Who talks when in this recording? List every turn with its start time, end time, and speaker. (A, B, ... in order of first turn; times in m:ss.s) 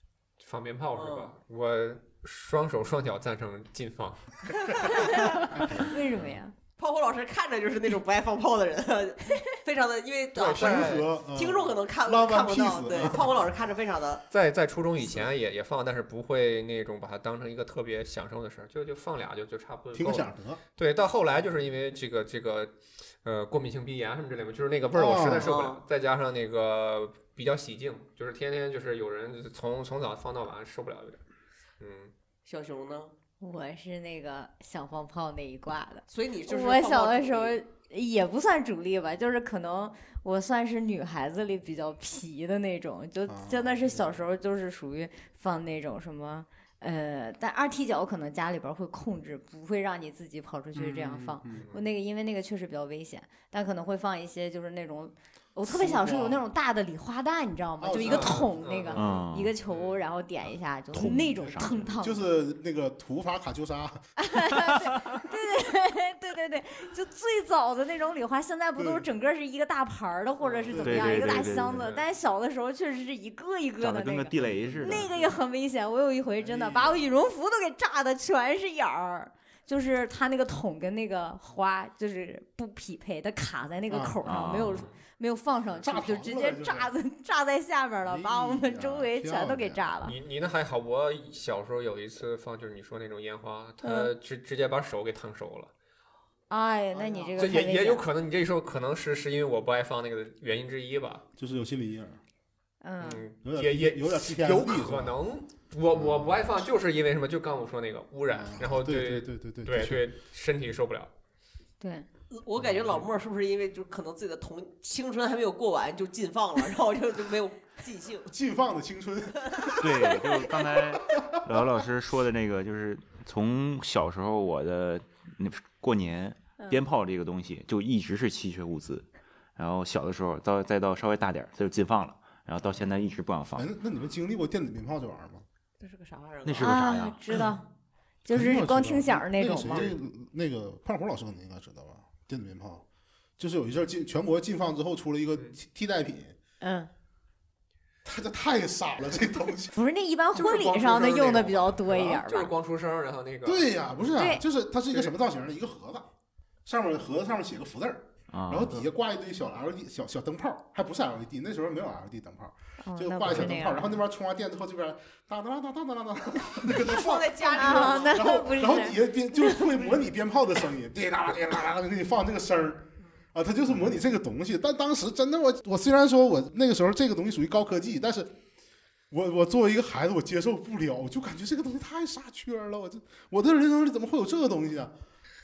0:00.4-0:05.9 A
0:01.0-0:01.3 B
0:04.8-0:06.5 C
0:05.5-0:05.9 D
0:06.8-0:14.2 B
0:10.3-0:11.1 A
0:10.5-0:13.3 D
0:14.3-0:22.7 A
0:19.9-0:20.6 D
0:23.2-0:31.2 A
0:24.9-0:25.6 D
0:25.4-0:25.8 B
0:31.8-0:32.1 A
0:32.4-0:33.1 B
0:33.4-1:02.2 C
0:36.1-0:37.6 B
0:43.3-0:44.2 D
0:50.7-0:51.7 D
0:51.5-0:51.8 A
0:55.6-0:56.4 D
0:57.8-0:58.5 D
0:58.0-1:00.0 A
0:58.9-0:59.5 E
1:00.9-1:01.8 E
1:01.0-1:04.1 D
1:04.2-1:30.1 C
1:08.8-1:09.0 D
1:10.5-1:11.5 D
1:10.8-1:11.8 E
1:11.7-1:12.0 A
1:13.8-1:15.1 E
1:14.6-1:15.0 D
1:16.4-1:17.1 D
1:23.9-1:24.2 D
1:24.2-1:24.8 E
1:24.7-1:24.9 A
1:25.8-1:26.9 D
1:28.0-1:29.9 D
1:30.0-1:35.7 A
1:33.8-1:34.1 C
1:36.5-1:38.0 C
1:36.9-1:37.4 B
1:37.4-1:41.2 A
1:41.4-1:42.2 D
1:42.8-1:43.2 C
1:43.0-1:51.1 A
1:43.4-1:45.2 D
1:45.9-1:46.6 D
1:48.3-1:50.0 D
1:51.8-1:52.0 C
1:52.3-1:58.3 B
1:58.3-2:01.6 D
1:59.5-1:59.7 B
1:59.8-2:13.7 E
2:13.6-2:15.4 D
2:15.8-2:16.7 B
2:16.4-2:17.2 E
2:16.6-2:17.6 C
2:18.2-2:19.9 C
2:18.3-2:22.8 D
2:23.4-2:26.4 D
2:26.6-2:26.9 C
2:28.0-2:29.7 D
2:29.7-2:32.5 C
2:30.4-2:32.2 D
2:31.9-2:33.7 A
2:33.4-2:36.1 D
2:34.1-2:34.4 C
2:36.6-2:58.3 D
2:38.3-2:38.8 E
2:42.8-2:43.9 C
2:46.7-2:48.3 B
2:47.5-2:49.6 C
2:59.1-3:05.0 D